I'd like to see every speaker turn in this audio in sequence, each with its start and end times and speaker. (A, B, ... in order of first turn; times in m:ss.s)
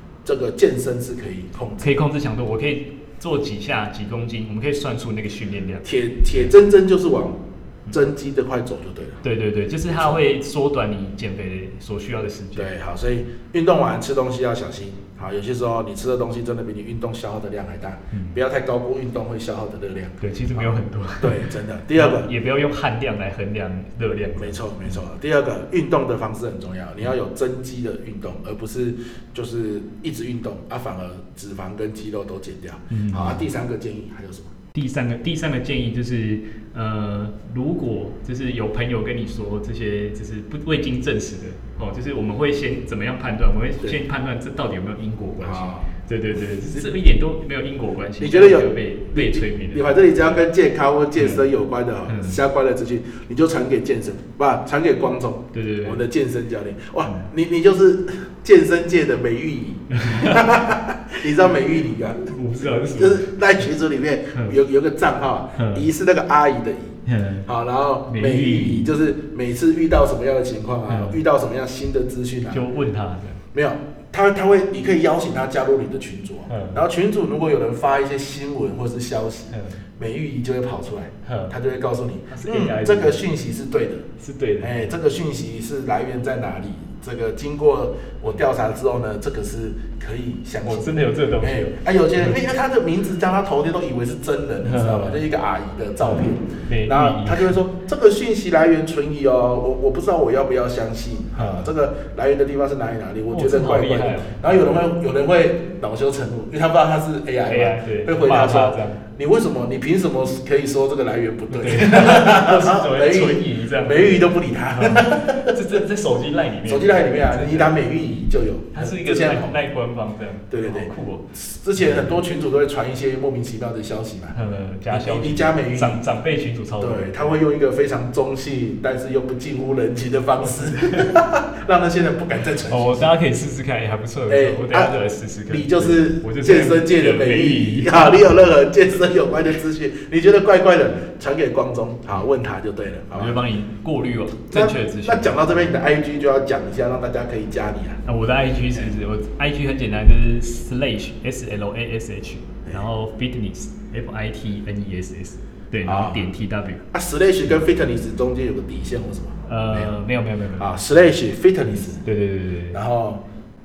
0:00.2-0:02.0 A
0:01.8-0:06.4 B
0:05.8-0:09.2 A
0:09.2-0:12.7 B
0:09.9-0:10.2 A
0:12.6-0:22.3 A
0:18.1-0:18.4 B
0:20.2-0:25.0 B
0:24.4-0:34.5 A
0:32.9-0:33.4 B
0:34.7-0:50.4 B
0:45.4-0:45.9 A
0:48.2-1:12.6 A
0:51.2-0:51.4 B
0:52.1-0:52.4 B
0:55.5-0:56.0 B
0:59.9-1:00.4 B
1:02.2-1:03.4 B
1:05.6-1:05.9 B
1:07.0-1:07.5 B
1:08.1-1:08.9 B
1:10.9-1:11.2 B
1:12.5-1:13.4 B
1:13.5-1:24.1 A
1:16.5-1:16.8 B
1:19.5-1:19.8 B
1:21.2-1:21.5 B
1:22.3-1:23.2 B
1:24.2-1:25.0 B
1:24.6-1:55.8 A
1:30.6-1:32.4 B
1:34.6-1:35.2 B
1:36.0-1:37.6 B
1:41.3-1:41.7 B
1:43.3-1:44.4 B
1:47.4-1:49.0 B
1:51.5-1:57.8 B
1:56.6-1:59.6 A
1:58.7-2:02.1 B
2:00.5-2:04.3 A
2:04.3-2:07.4 B
2:04.9-2:06.0 A
2:06.8-2:13.1 A
2:10.5-2:11.2 B
2:12.7-2:18.4 B
2:14.3-2:23.4 A
2:23.1-2:25.7 B
2:24.5-2:28.0 A
2:28.0-2:36.8 B
2:35.8-2:36.3 A
2:36.9-2:39.9 A
2:39.4-2:40.7 B
2:40.6-2:42.0 A
2:42.0-2:42.8 B
2:42.7-2:43.2 A